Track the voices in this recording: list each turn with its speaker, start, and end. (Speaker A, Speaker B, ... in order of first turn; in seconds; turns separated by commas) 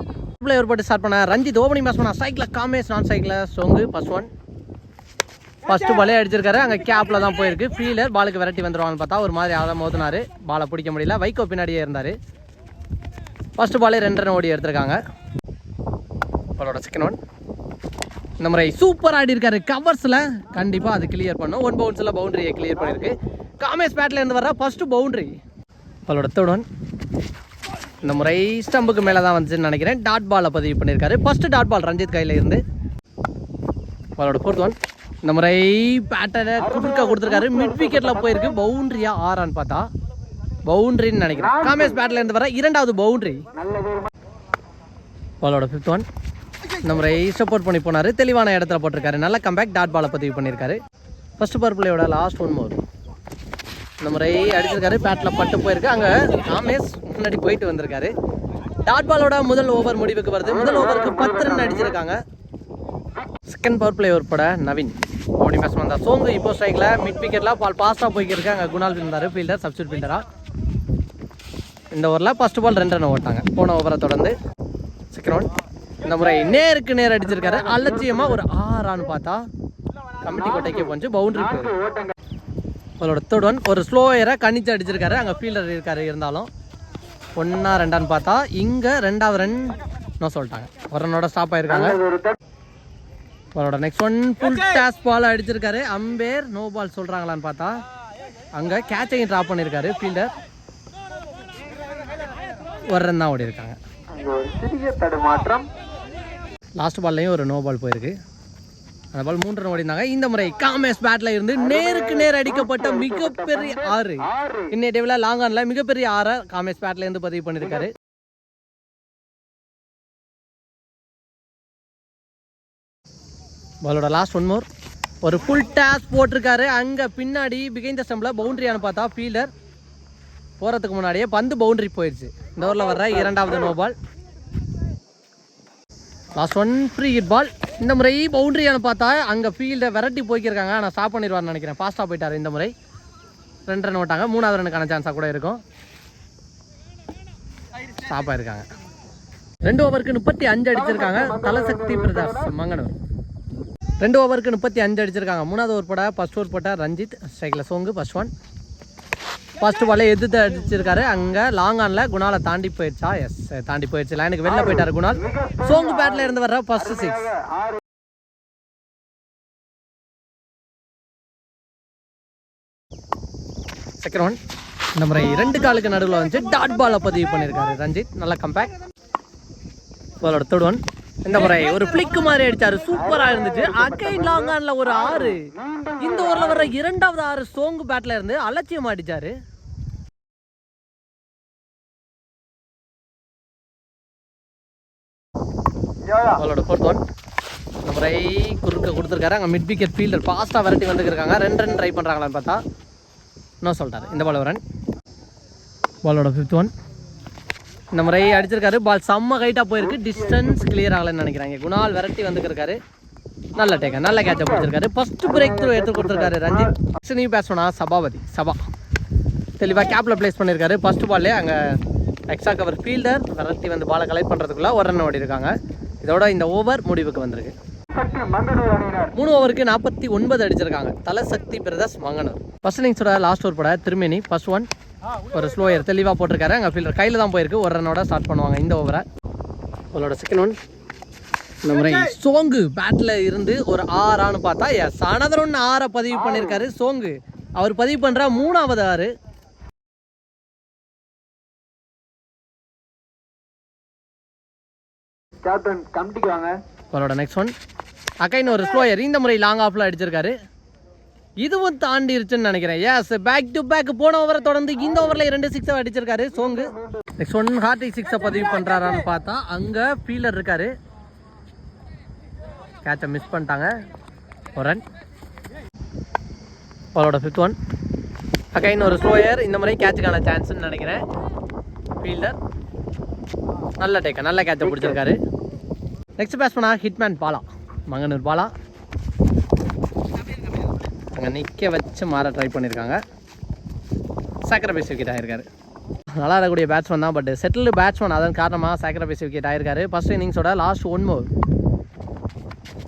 Speaker A: 0.4-4.3, Speaker A: 5.7-12.1, Speaker A: 13.6-15.0, Speaker A: 16.6-17.2, Speaker A: 18.4-25.3, Speaker A: 26.1-26.6, Speaker A: 28.0-32.6, Speaker A: 34.2-39.9, Speaker A: 40.7-43.4, Speaker B: 43.6-44.1, Speaker A: 45.4-46.0, Speaker A: 46.8-50.8, Speaker A: 51.4-52.8, Speaker A: 54.0-58.1, Speaker A: 58.9-62.2, Speaker A: 63.5-70.2, Speaker A: 71.9-74.3, Speaker A: 75.1-75.5, Speaker A: 76.0-79.4, Speaker A: 80.2-81.8, Speaker A: 83.0-86.5, Speaker A: 87.4-92.0, Speaker A: 93.5-97.7, Speaker A: 98.5-100.3, Speaker A: 102.9-103.8, Speaker B: 104.1-105.7, Speaker A: 106.8-108.1, Speaker A: 109.1-117.9, Speaker A: 123.8-124.7, Speaker A: 125.2-129.5, Speaker A: 130.6-133.9, Speaker A: 136.4-142.7, Speaker A: 143.7-145.6, Speaker A: 147.9-148.7, Speaker A: 149.6-152.9, Speaker A: 154.0-158.3, Speaker A: 159.6-167.3, Speaker B: 165.4-165.7, Speaker A: 174.0-174.4, Speaker A: 174.9-178.7, Speaker A: 180.2-189.3, Speaker B: 185.6-185.9, Speaker A: 196.2-197.0, Speaker A: 197.8-202.6, Speaker A: 203.6-204.6, Speaker A: 206.0-206.7, Speaker A: 207.9-212.8, Speaker A: 213.5-218.6, Speaker A: 219.6-221.7, Speaker A: 222.3-227.5, Speaker B: 228.0-229.1, Speaker A: 229.1-234.7, Speaker A: 235.3-239.0, Speaker A: 239.9-240.6, Speaker A: 241.6-249.1, Speaker B: 255.4-256.6, Speaker A: 256.9-257.5, Speaker A: 258.2-260.3, Speaker A: 261.4-270.7, Speaker A: 272.8-273.7, Speaker A: 274.6-274.8, Speaker A: 276.9-277.6, Speaker A: 278.5-281.0, Speaker A: 282.0-282.4, Speaker A: 283.8-285.2, Speaker A: 286.2-288.5, Speaker A: 291.1-293.0, Speaker A: 294.4-295.5, Speaker A: 296.2-301.3